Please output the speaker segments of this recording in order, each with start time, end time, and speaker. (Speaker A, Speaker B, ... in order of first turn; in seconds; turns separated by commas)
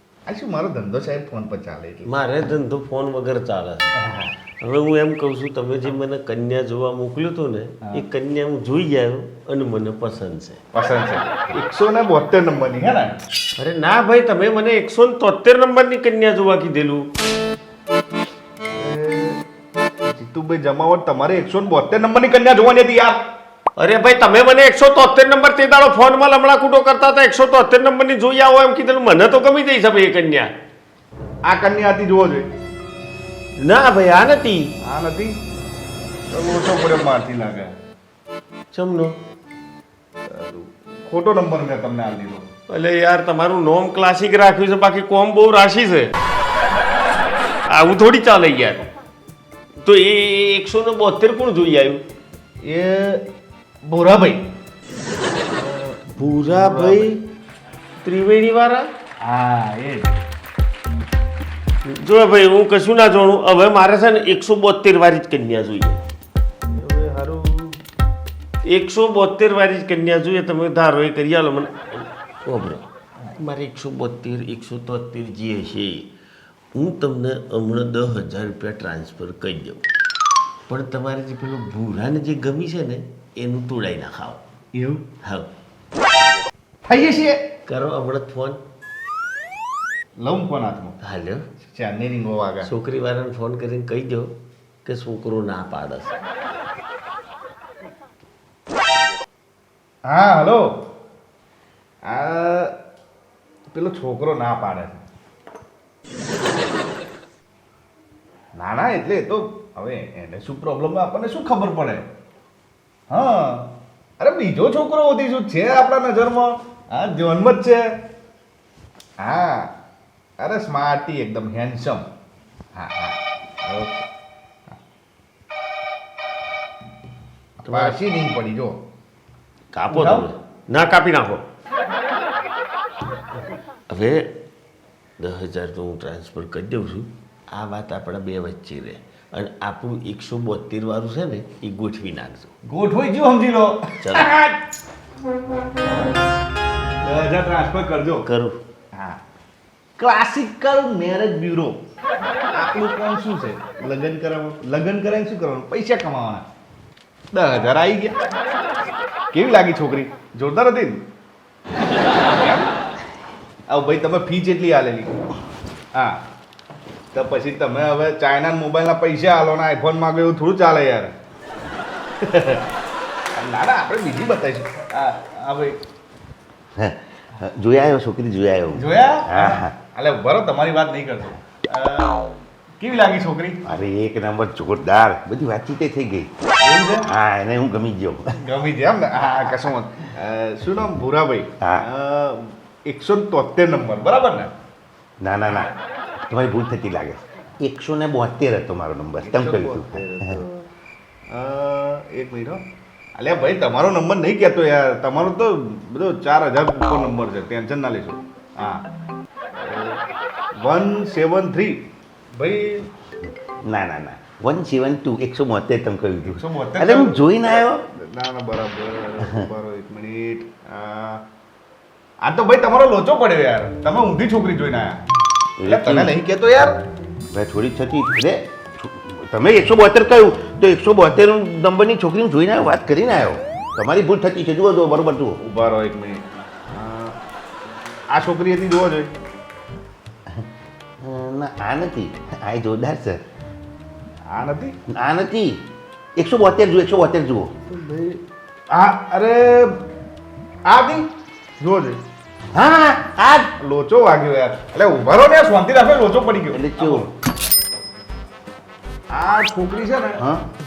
Speaker A: 0.3-2.1, Speaker B: 2.0-4.0, Speaker A: 4.0-4.3, Speaker B: 4.6-10.6, Speaker A: 10.7-13.2, Speaker B: 13.6-17.1, Speaker A: 18.8-19.4, Speaker A: 20.2-23.2, Speaker B: 23.8-30.5, Speaker A: 31.4-32.5, Speaker B: 33.6-34.7, Speaker A: 34.8-35.4, Speaker A: 36.3-37.7, Speaker B: 38.7-39.2, Speaker A: 40.3-42.5, Speaker B: 42.7-46.1, Speaker B: 47.7-48.9, Speaker B: 49.8-52.0, Speaker A: 52.6-53.2, Speaker A: 53.9-54.5, Speaker A: 55.6-57.1, Speaker B: 56.1-57.2, Speaker B: 58.0-58.9, Speaker A: 59.2-60.2, Speaker B: 61.9-66.0, Speaker A: 66.7-67.8, Speaker B: 68.7-72.8, Speaker B: 73.4-76.1, Speaker B: 76.8-79.8, Speaker B: 80.7-84.4, Speaker A: 84.7-85.0, Speaker A: 86.9-87.4, Speaker B: 87.7-88.6, Speaker A: 90.2-91.0, Speaker B: 91.0-91.4, Speaker A: 91.7-92.7, Speaker B: 92.6-94.3, Speaker B: 94.8-96.2, Speaker A: 100.1-100.6, Speaker A: 102.1-102.7, Speaker A: 103.7-105.0, Speaker A: 108.6-112.0, Speaker A: 113.1-113.7, Speaker A: 114.2-117.8, Speaker A: 119.2-119.7, Speaker A: 120.4-122.0, Speaker A: 122.8-124.0, Speaker A: 127.6-128.8, Speaker B: 127.7-128.0, Speaker B: 129.7-131.4, Speaker A: 129.9-130.3, Speaker B: 133.9-134.3, Speaker B: 135.2-142.5, Speaker A: 142.7-144.6, Speaker B: 144.0-144.3, Speaker A: 147.0-148.2, Speaker B: 148.2-148.6, Speaker A: 150.0-151.8, Speaker A: 152.6-156.4, Speaker A: 157.3-158.2, Speaker A: 159.3-161.0, Speaker A: 162.2-162.7, Speaker A: 163.7-165.2, Speaker A: 167.1-171.1, Speaker A: 172.2-172.7, Speaker A: 173.3-175.8, Speaker C: 176.8-179.7, Speaker A: 178.8-182.1, Speaker A: 182.8-183.6, Speaker C: 183.7-186.3, Speaker A: 186.6-187.1, Speaker C: 187.0-188.3, Speaker A: 188.4-194.5, Speaker C: 195.2-195.7, Speaker C: 196.2-200.3, Speaker A: 199.2-200.6, Speaker A: 201.3-202.6, Speaker A: 203.2-208.8, Speaker A: 209.6-210.0, Speaker A: 210.6-211.8, Speaker A: 212.4-212.9, Speaker C: 213.7-217.8, Speaker A: 216.2-221.2, Speaker A: 222.2-225.0, Speaker C: 225.6-226.2, Speaker A: 225.7-226.8, Speaker C: 227.3-235.4, Speaker A: 235.4-237.2, Speaker A: 238.1-239.1, Speaker C: 241.0-243.2, Speaker A: 244.3-244.7, Speaker C: 244.9-245.6, Speaker C: 246.2-247.8, Speaker A: 248.7-249.8, Speaker A: 250.7-251.1, Speaker A: 251.6-252.0, Speaker C: 252.5-253.5, Speaker A: 253.6-257.1, Speaker C: 256.5-257.1, Speaker A: 259.1-260.2, Speaker C: 260.2-260.4